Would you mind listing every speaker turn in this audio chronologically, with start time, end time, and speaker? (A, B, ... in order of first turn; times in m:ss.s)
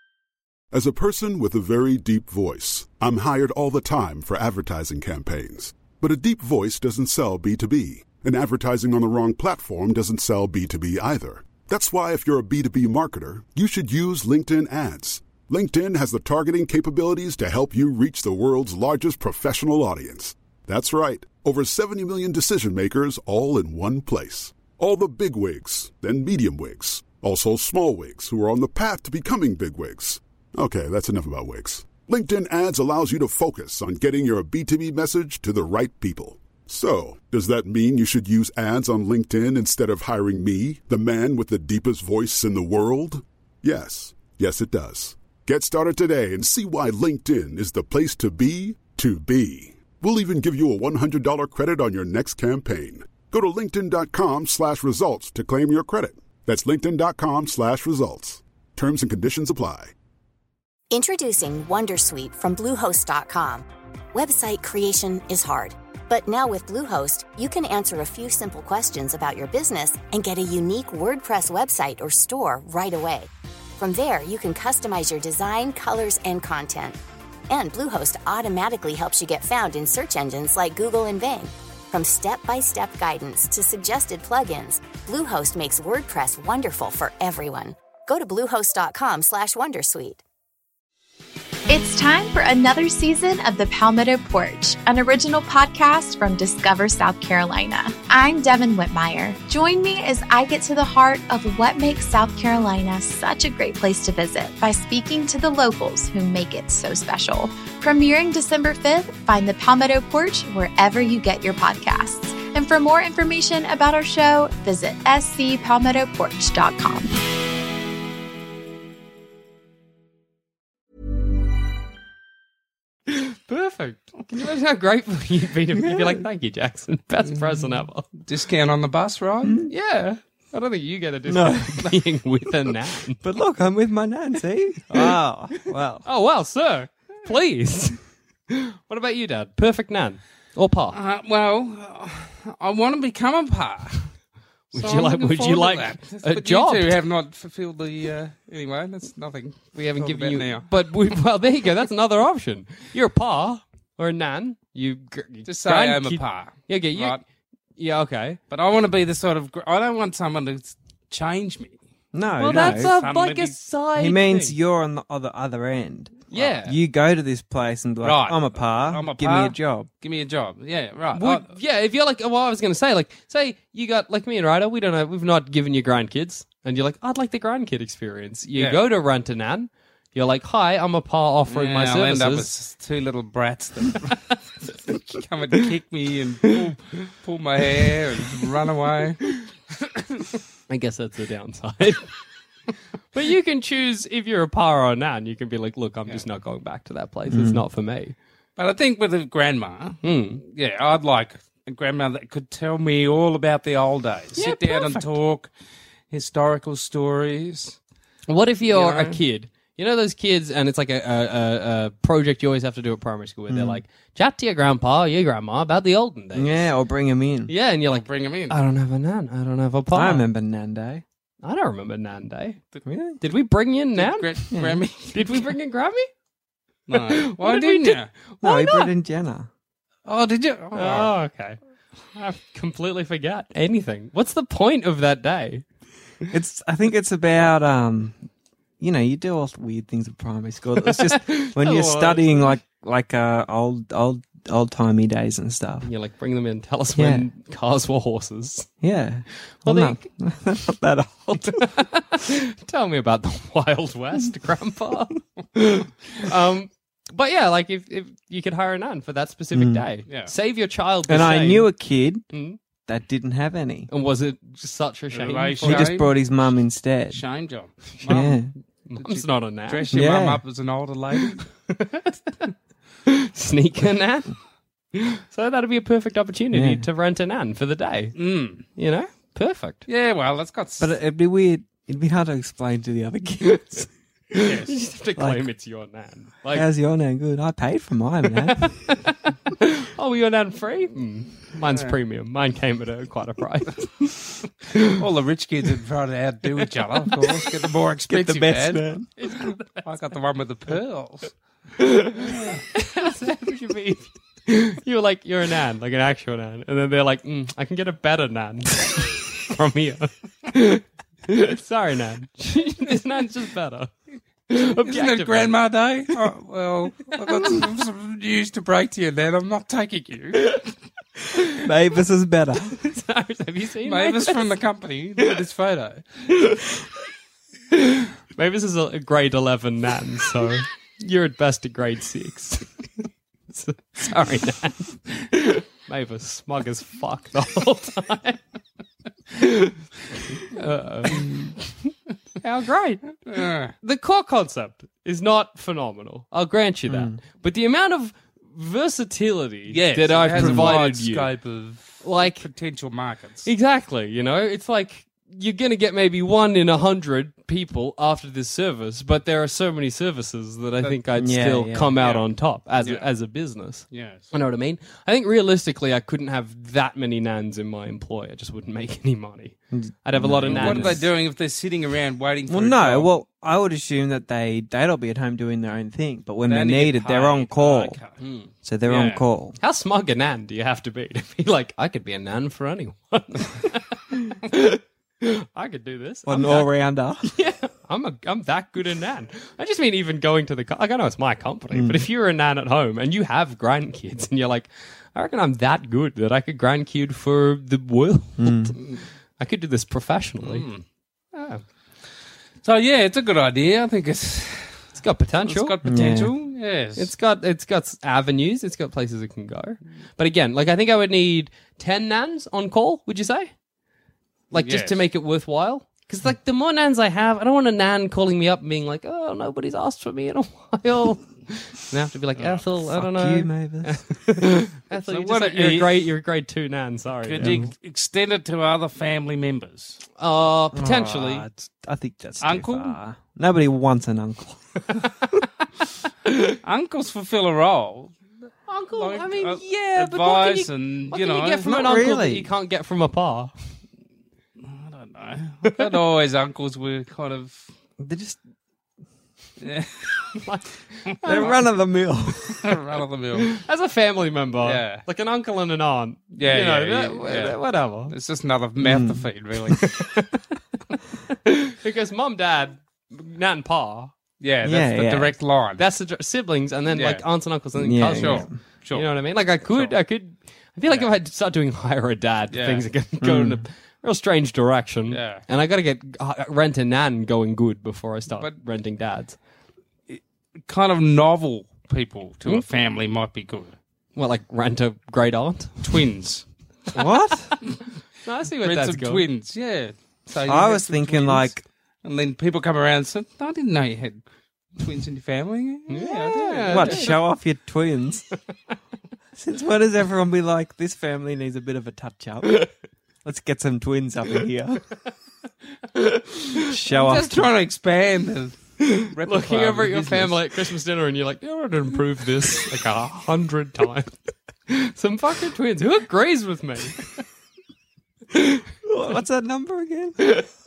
0:00.7-0:59.9 A
1:00.9-1:17.0 B
1:17.5-1:30.2 B
1:31.7-1:57.1 C
2:03.1-2:08.1 D
2:05.7-2:06.2 E
2:08.2-2:09.6 F
2:09.4-2:09.7 E
2:09.7-2:13.2 D
2:11.2-2:11.9 E
2:13.2-2:16.0 E
2:16.0-2:18.0 D
2:18.5-2:21.0 D
2:20.9-2:24.1 F
2:24.7-2:30.7 F
2:24.7-2:27.0 D
2:29.7-2:37.2 D
2:35.5-2:37.2 F
2:37.8-2:38.4 D
2:38.5-2:41.8 F
2:42.1-2:42.9 E
2:42.4-2:44.6 D
2:42.5-2:43.6 F
2:44.0-2:49.9 E
2:46.3-2:46.8 D
2:48.0-2:51.5 F
2:51.1-3:02.5 D
2:58.5-2:58.8 F
3:01.5-3:09.3 F
3:10.7-3:12.1 D
3:13.1-3:18.2 D
3:17.3-3:17.6 E
3:18.6-3:25.5 F
3:20.0-3:20.4 D
3:24.4-3:25.1 D
3:26.1-3:27.8 F
3:28.3-3:36.7 D
3:28.7-3:29.2 F
3:33.5-3:33.8 E
3:36.3-3:37.5 E
3:37.5-3:40.3 D
3:37.9-3:38.6 F
3:39.9-3:41.0 E
3:41.4-3:42.6 D
3:42.8-3:43.2 E
3:43.2-3:44.4 D
3:44.0-3:45.5 F
3:44.5-3:44.8 E
3:45.1-3:46.1 D
3:46.9-3:48.1 F
3:46.9-3:48.9 D
3:48.4-3:49.5 E
3:50.0-3:51.1 F
3:50.7-3:51.6 D
3:52.1-3:55.6 D
3:56.3-3:58.2 E
3:58.8-4:05.9 E
4:00.8-4:02.5 D
4:05.8-4:08.7 D
4:07.0-4:07.3 E
4:08.8-4:11.7 E
4:09.6-4:10.1 D
4:11.4-4:21.7 D
4:19.5-4:19.8 E
4:20.1-4:20.3 F
4:21.1-4:22.2 E
4:22.3-4:22.6 D
4:22.8-4:23.9 E
4:23.9-4:25.9 D
4:25.1-4:26.4 F
4:25.6-4:27.2 E
4:27.1-4:28.4 F
4:28.1-4:28.5 E
4:28.9-4:29.9 D
4:29.0-4:31.4 F
4:29.9-4:30.4 E
4:31.7-4:32.5 D
4:33.0-4:34.3 D
4:34.9-4:38.2 D
4:36.5-4:36.9 E
4:38.2-4:38.6 F
4:38.7-4:39.8 D
4:39.8-4:40.9 F
4:40.8-4:43.8 E
4:43.5-4:46.7 D
4:44.4-4:44.8 F
4:45.2-4:45.5 E
4:46.5-4:48.8 E
4:48.6-4:54.9 D
4:54.9-4:58.9 F
4:58.1-4:59.1 E
4:59.2-4:59.9 D
4:59.8-5:01.3 F
5:01.8-5:13.9 D
5:02.2-5:02.6 F
5:14.5-5:15.5 D
5:14.6-5:20.6 F
5:17.3-5:17.6 D
5:21.3-5:21.6 D
5:21.6-5:22.8 E
5:22.8-5:24.4 D
5:23.8-5:26.3 F
5:27.7-5:32.8 D
5:33.5-5:38.4 D
5:39.4-5:39.7 D
5:40.4-5:41.8 D
5:42.4-5:43.1 D
5:43.2-5:43.7 F
5:43.8-5:51.3 D
5:46.9-5:47.2 E
5:49.7-5:53.5 F
5:50.4-5:50.8 E
5:52.0-5:52.5 D
5:53.4-6:11.0 D
6:01.2-6:01.9 E
6:02.0-6:02.3 F
6:02.8-6:03.1 F
6:03.9-6:04.3 F
6:09.7-6:11.0 E
6:10.5-6:13.1 F
6:12.5-6:18.0 E
6:16.4-6:18.2 F
6:18.2-6:18.5 D
6:18.6-6:19.6 E
6:18.8-6:19.2 F
6:19.6-6:26.7 D
6:26.2-6:27.3 E
6:27.2-6:38.8 D
6:31.7-6:32.0 E
6:38.4-6:38.7 E
6:39.4-6:40.6 D
6:40.4-6:40.8 F
6:41.3-6:41.6 D
6:42.6-6:44.9 F
6:44.9-6:45.7 D
6:45.4-6:47.1 F
6:45.8-6:46.3 E
6:47.0-6:53.5 D
6:54.5-7:07.7 D
6:54.5-6:55.0 F
7:02.4-7:02.6 F
7:02.9-7:04.0 E
7:05.0-7:06.1 F
7:07.2-7:10.0 F
7:07.4-7:07.6 E
7:10.2-7:11.4 D
7:10.7-7:14.8 E
7:12.4-7:13.0 F
7:16.6-7:18.2 F
7:18.7-7:23.5 D
7:18.9-7:21.8 F
7:21.6-7:22.5 E
7:24.6-7:27.7 F
7:28.0-7:28.4 E
7:29.6-7:30.3 F
7:30.4-7:31.6 D
7:31.2-7:32.6 E
7:32.5-7:33.6 F
7:33.5-7:38.1 D
7:34.6-7:35.0 F
7:36.4-7:37.6 F
7:38.1-7:39.8 F
7:38.8-7:39.3 E
7:39.8-7:40.4 D
7:41.3-7:44.1 D
7:44.4-7:45.8 F
7:44.6-7:45.3 E
7:45.8-7:59.4 D
7:46.9-7:47.2 F
7:47.7-7:48.6 E
7:48.2-7:49.1 F
7:49.7-7:50.0 F
7:52.5-7:52.8 F
7:53.2-7:53.6 E
7:55.1-7:55.4 F
8:00.1-8:03.8 F
8:04.2-8:05.9 D
8:05.8-8:06.4 F
8:06.9-8:07.5 E
8:08.2-8:09.2 D
8:08.6-8:14.2 F
8:10.4-8:11.6 E
8:14.8-8:17.2 F
8:15.9-8:17.2 D
8:16.7-8:18.2 E
8:19.3-8:22.7 E
8:23.2-8:24.8 E
8:26.5-8:27.5 E
8:26.9-8:30.4 F
8:28.8-8:34.2 D
8:34.7-8:37.0 D
8:38.3-8:38.6 D
8:38.8-8:40.2 E
8:40.2-8:40.5 D